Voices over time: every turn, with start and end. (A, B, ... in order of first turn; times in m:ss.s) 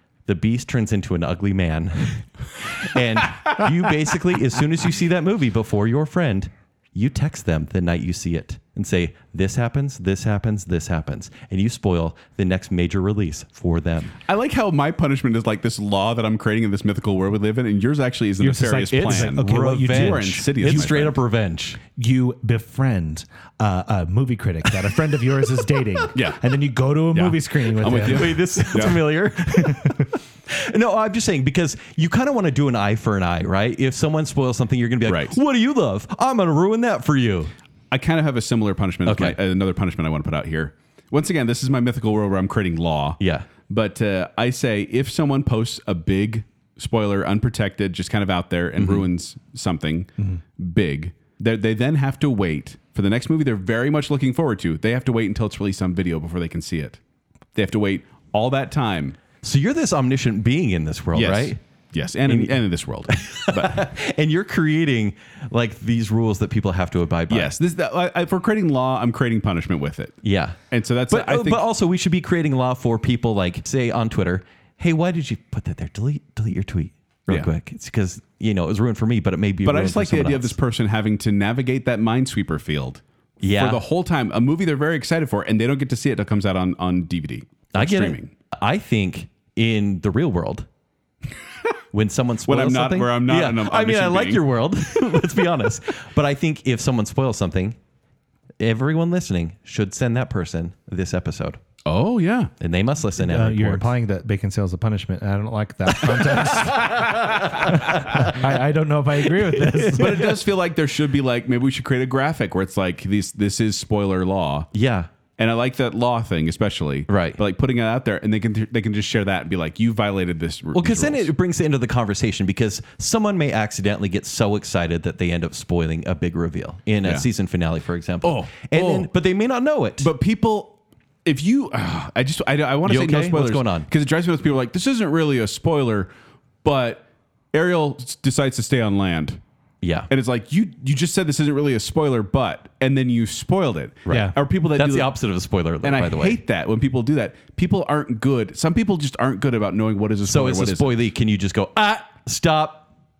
0:00.2-0:14.1 A
0:14.2-0:21.2 B
0:18.4-0:20.9 C
0:18.9-0:21.8 A
0:22.0-0:28.7 C
0:26.1-0:26.4 B
0:27.1-0:29.0 B
0:27.9-0:37.5 A
0:29.6-0:30.0 C
0:35.0-0:35.4 B
0:37.9-0:57.0 B
0:39.0-0:39.4 A
0:43.2-0:43.5 A
0:48.8-0:49.0 A
0:57.5-0:59.2 B
0:59.4-1:01.6 A
1:01.1-1:03.9 B
1:02.3-1:02.5 A
1:03.1-1:07.6 A
1:07.3-1:11.6 B
1:10.2-1:10.6 A
1:11.1-1:20.6 A
1:19.6-1:28.3 B
1:23.4-1:23.8 A
1:27.7-1:30.7 A
1:31.9-1:37.8 A
1:32.4-1:34.4 B
1:38.6-1:41.6 A
1:41.8-1:42.5 B
1:42.6-1:43.9 A
1:43.2-1:50.3 C
1:46.1-1:48.4 A
1:49.3-1:50.4 A
1:50.0-1:54.7 B
1:54.7-1:55.1 A
1:55.4-2:01.3 B
1:57.1-1:57.4 A
2:00.7-2:10.1 A
2:08.2-2:09.1 B
2:10.0-2:16.1 B
2:12.8-2:13.9 A
2:16.6-2:19.4 B
2:19.8-2:20.1 A
2:20.1-2:25.1 B
2:24.1-2:26.4 A
2:25.8-2:31.0 B
2:30.2-2:32.9 A